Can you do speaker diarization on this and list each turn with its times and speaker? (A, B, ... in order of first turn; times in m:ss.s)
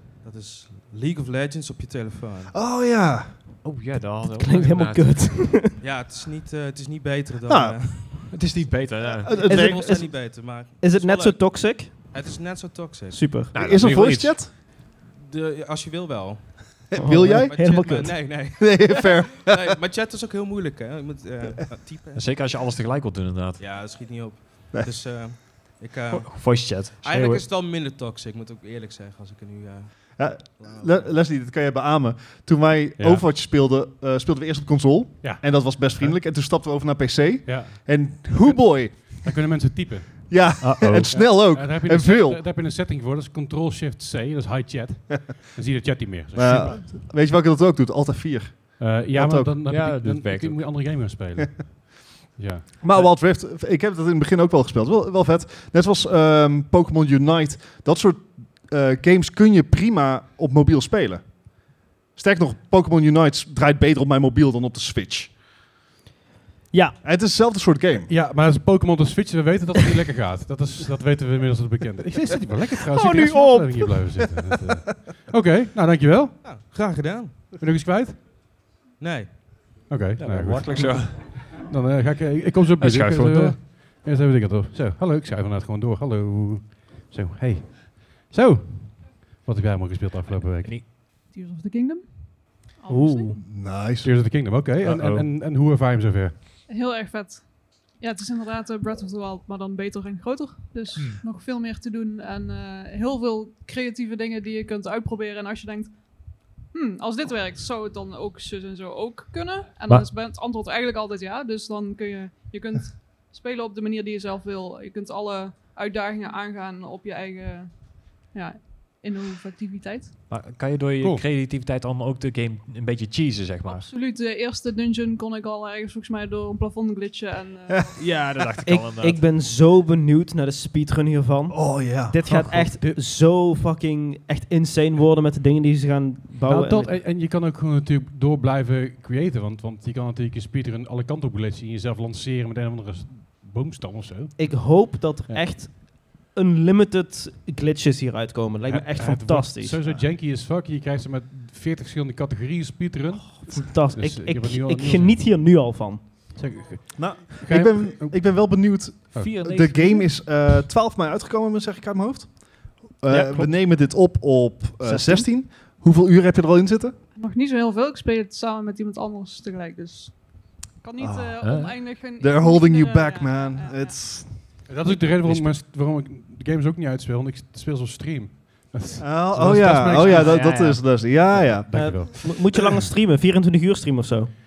0:00.2-0:02.6 A
0:02.5-0:03.6 B
0:03.6-0:05.7 C
0:04.4-0:05.8 D
0:05.8-0:08.2 A
0:07.5-0:08.3 B
0:08.3-0:09.5 C
0:09.2-0:09.8 B
0:09.4-0:13.4 A
0:09.4-0:12.5 D
0:13.1-0:13.5 D
0:13.5-0:14.4 C
0:13.5-0:14.5 B
0:14.5-0:22.8 A
0:16.9-0:19.8 B
0:17.0-0:18.5 D
0:22.1-0:23.6 C
0:23.6-0:31.2 A
0:26.1-0:27.5 C
0:30.2-0:39.4 B
0:33.0-0:33.3 E
0:35.2-0:36.2 E
0:37.5-0:46.8 E
0:40.3-0:42.4 B
0:40.6-0:41.5 C
0:46.4-0:49.5 B
0:48.8-0:52.7 E
0:49.7-0:50.7 C
0:52.8-1:05.4 B
1:06.7-1:07.0 D
1:07.0-1:08.1 B
1:08.1-1:16.6 E
1:12.9-1:13.9 D
1:16.4-1:17.4 A
1:17.6-1:18.2 E
1:19.0-1:19.6 A
1:19.9-1:30.8 E
1:20.2-1:21.5 C
1:22.8-1:23.6 C
1:30.6-1:30.9 C
1:31.3-1:33.2 F
1:32.9-1:33.4 D
1:33.4-1:34.1 B
1:34.0-1:36.4 E
1:34.8-1:35.3 C
1:36.7-2:00.2 F
1:41.0-1:41.2 C
2:00.3-2:03.9 C
2:01.0-2:01.2 E
2:03.6-2:08.0 F
2:08.0-2:17.0 D
2:08.2-2:09.3 C
2:11.5-2:12.2 B
2:12.2-2:13.0 E
2:16.4-2:25.5 E
2:24.4-2:29.8 D
2:28.7-2:35.2 E
2:33.5-2:36.1 D
2:36.4-2:39.3 E
2:37.0-2:47.0 B
2:39.2-2:40.3 C
2:43.1-2:43.5 C
2:44.8-2:45.3 D
2:47.2-2:54.0 F
2:51.0-2:54.6 B
2:51.4-2:51.8 C
2:54.7-3:00.5 E
2:54.9-2:55.5 C
2:59.0-3:02.1 B
3:00.0-3:01.0 C
3:01.3-3:02.5 E
3:01.7-3:04.3 D